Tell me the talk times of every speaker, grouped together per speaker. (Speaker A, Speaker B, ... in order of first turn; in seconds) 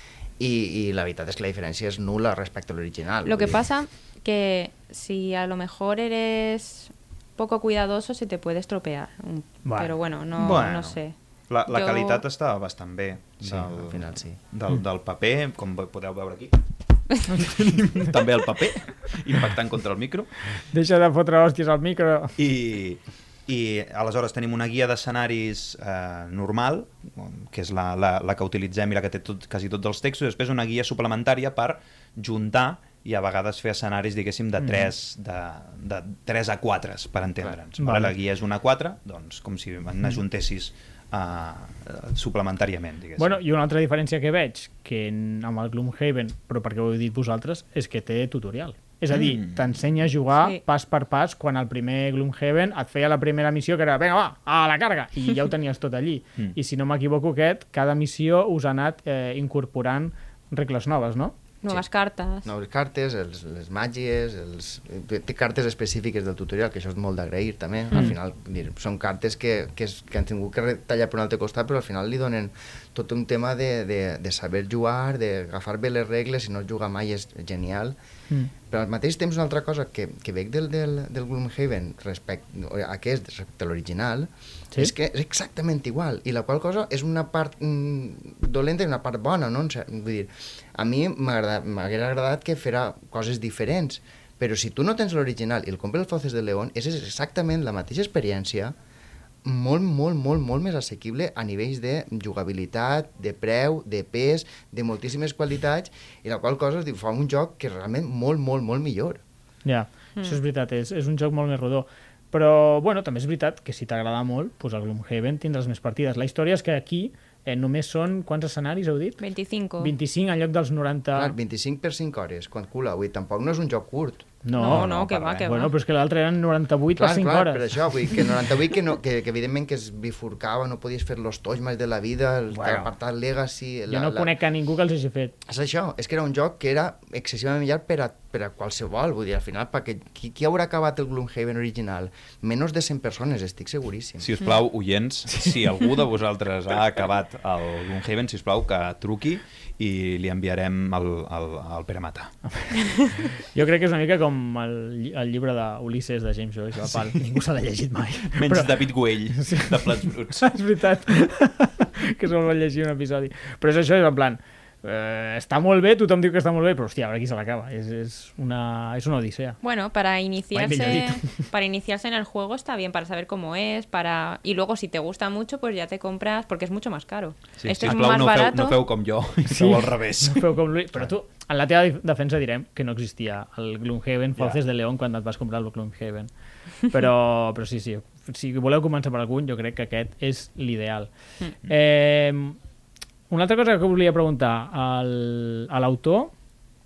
Speaker A: 0.4-3.6, 13.4-14.4, 62.4-78.0, 78.7-98.7, 99.4-109.2, 121.1-124.3, 126.9-134.3, 135.4-144.3
Speaker B: 3.2-11.1, 11.7-12.2, 61.6-62.5, 119.2-119.9, 124.5-125.7, 169.6-178.8
Speaker C: 9.6-9.9, 20.7-22.4, 34.6-34.9, 37.8-38.1, 43.2-61.3, 109.6-119.2, 119.8-121.3, 124.4-124.9, 125.4-127.7, 132.5-132.9, 133.9-135.3, 152.5-169.6, 170.5-171.3, 179.4-186.3, 186.9-191.1, 191.6-192.6, 193.3-196.3
Speaker D: 10.3-11.0, 11.5-16.6, 17.1-20.3, 22.4-43.4, 49.1-49.6, 124.7-125.5, 144.2-152.3, 158.3-160.5, 177.6-181.0